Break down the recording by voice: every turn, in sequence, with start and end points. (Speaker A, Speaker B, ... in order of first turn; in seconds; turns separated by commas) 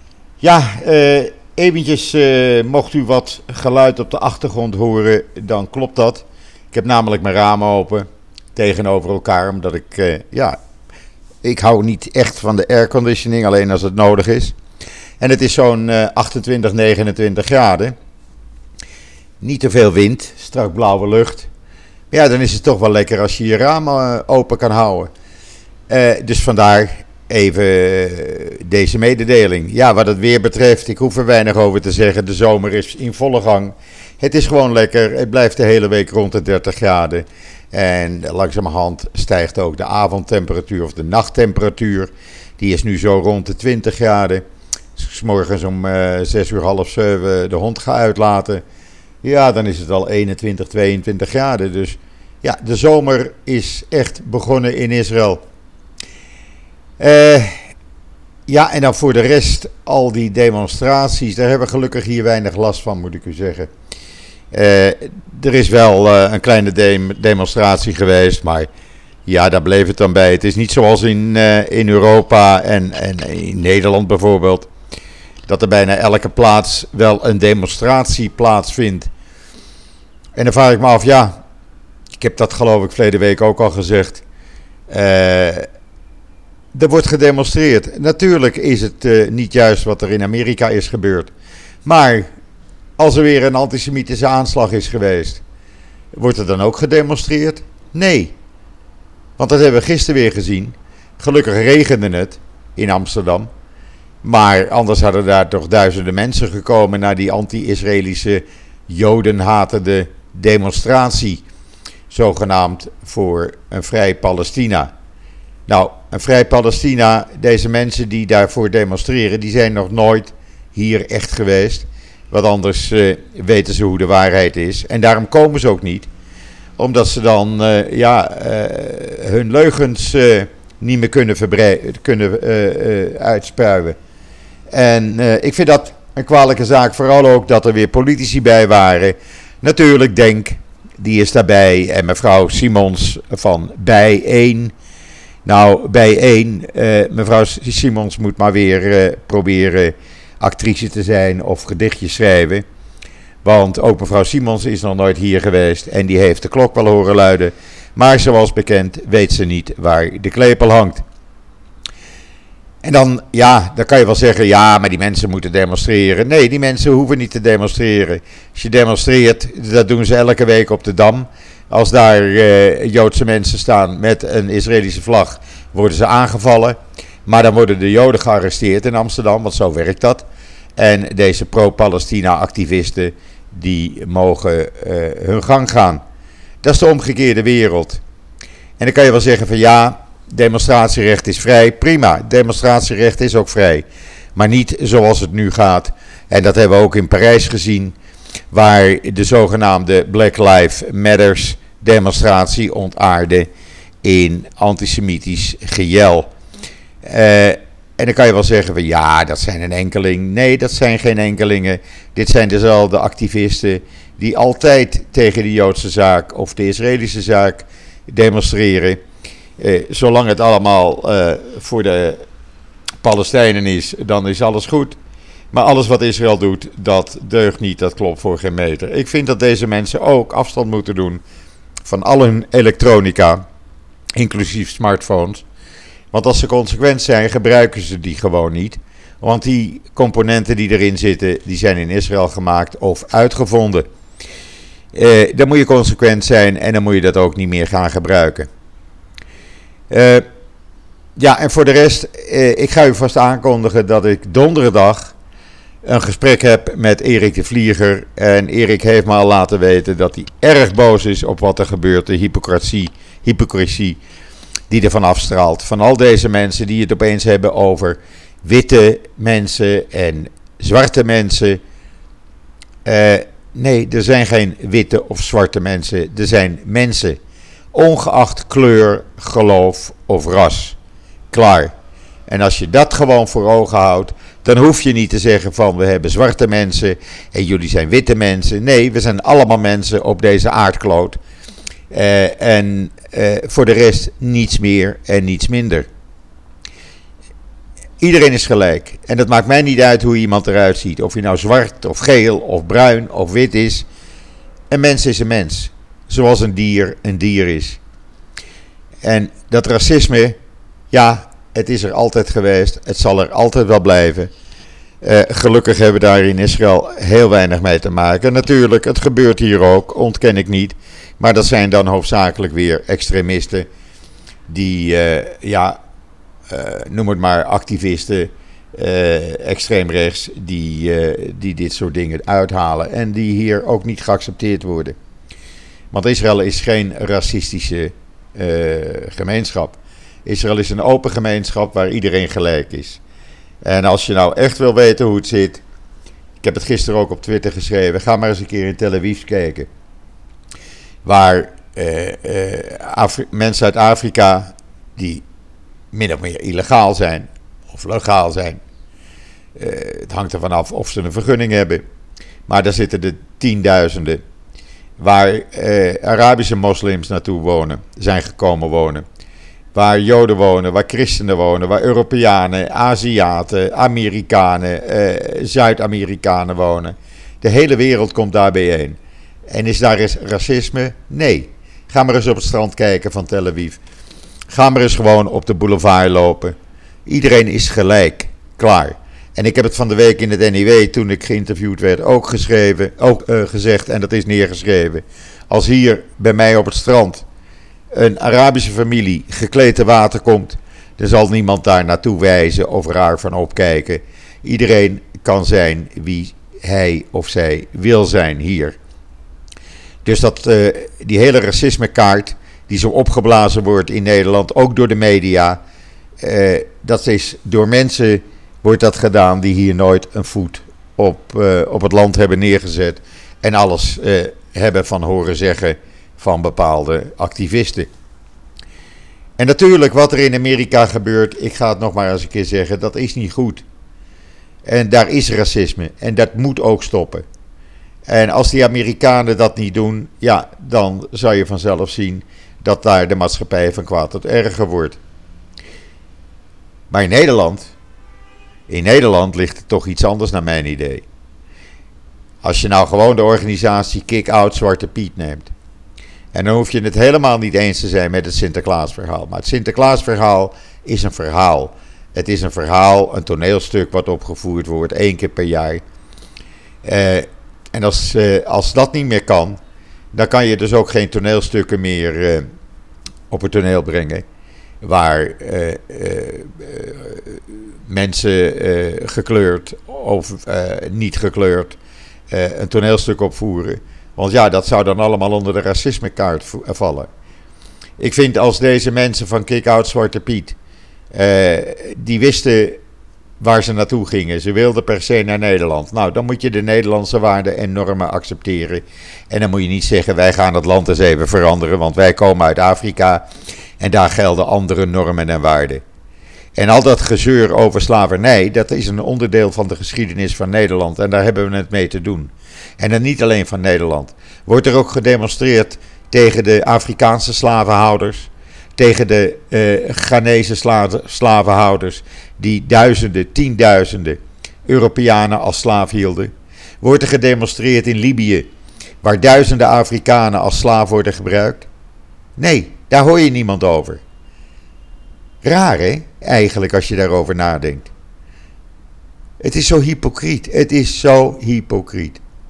Speaker A: 0.4-10.6, Speaker A: 11.4-14.6, Speaker A: 15.2-17.9, Speaker A: 19.4-21.5, Speaker A: 22.1-25.1, Speaker A: 25.9-44.4, Speaker A: 45.0-48.6, Speaker A: 49.2-55.4, Speaker A: 57.0-57.7, Speaker A: 58.5-63.7, Speaker A: 64.5-68.7, Speaker A: 69.3-74.7, Speaker A: 75.5-79.1, Speaker A: 80.4-81.3, Speaker A: 82.2-84.2, Speaker A: 84.9-85.7, Speaker A: 86.7-91.3, Speaker A: 91.8-92.3, Speaker A: 93.0-95.4, Speaker A: 96.1-98.3, Speaker A: 99.4-103.5, Speaker A: 104.2-111.4, Speaker A: 112.1-114.9, Speaker A: 115.7-126.1, Speaker A: 126.8-134.0, Speaker A: 134.7-144.7, Speaker A: 145.4-152.7, Speaker A: 153.4-161.0, Speaker A: 162.8-186.0, Speaker A: 186.6-188.0, Speaker A: 188.8-197.9, Speaker A: 198.5-203.5, Speaker A: 204.0-206.3, Speaker A: 207.0-219.0, Speaker A: 219.6-222.2, Speaker A: 223.0-225.0, Speaker A: 225.5-231.2, Speaker A: 231.8-233.4, Speaker A: 234.2-235.4, Speaker A: 236.1-243.9, Speaker A: 244.9-248.5, Speaker A: 249.9-250.3, Speaker A: 251.2-255.1, Speaker A: 255.8-264.0, Speaker A: 264.7-271.6, Speaker A: 272.9-277.2, Speaker A: 277.7-280.8, Speaker A: 281.3-281.7, Speaker A: 282.3-291.2, Speaker A: 291.9-295.9, Speaker A: 298.0-303.9, Speaker A: 304.7-307.8, Speaker A: 309.0-310.4, Speaker A: 310.9-314.3, Speaker A: 315.0-323.7, Speaker A: 324.5-325.8, Speaker A: 326.5-335.0, Speaker A: 335.9-343.0, Speaker A: 343.6-345.6, Speaker A: 346.4-349.7, Speaker A: 351.1-355.2, Speaker A: 355.9-358.6, Speaker A: 359.6-361.8, Speaker A: 362.5-364.2, Speaker A: 365.0-369.1, Speaker A: 369.7-383.8, Speaker A: 384.5-397.2, Speaker A: 397.9-408.8, Speaker A: 410.1-415.6, Speaker A: 416.2-427.9, Speaker A: 429.4-433.6, Speaker A: 434.6-437.2, Speaker A: 438.1-445.0, Speaker A: 446.9-447.7, Speaker A: 448.7-451.1, Speaker A: 452.4-455.5, Speaker A: 456.3-465.8, Speaker A: 466.8-469.6, Speaker A: 470.1-472.5, Speaker A: 473.3-474.2, Speaker A: 474.8-481.8, Speaker A: 482.3-487.1, Speaker A: 488.0-490.6, Speaker A: 491.1-492.8, Speaker A: 493.4-503.2, Speaker A: 503.8-505.8, Speaker A: 506.6-528.5, Speaker A: 529.0-531.7, Speaker A: 532.4-534.0, Speaker A: 535.4-537.9, Speaker A: 539.4-542.2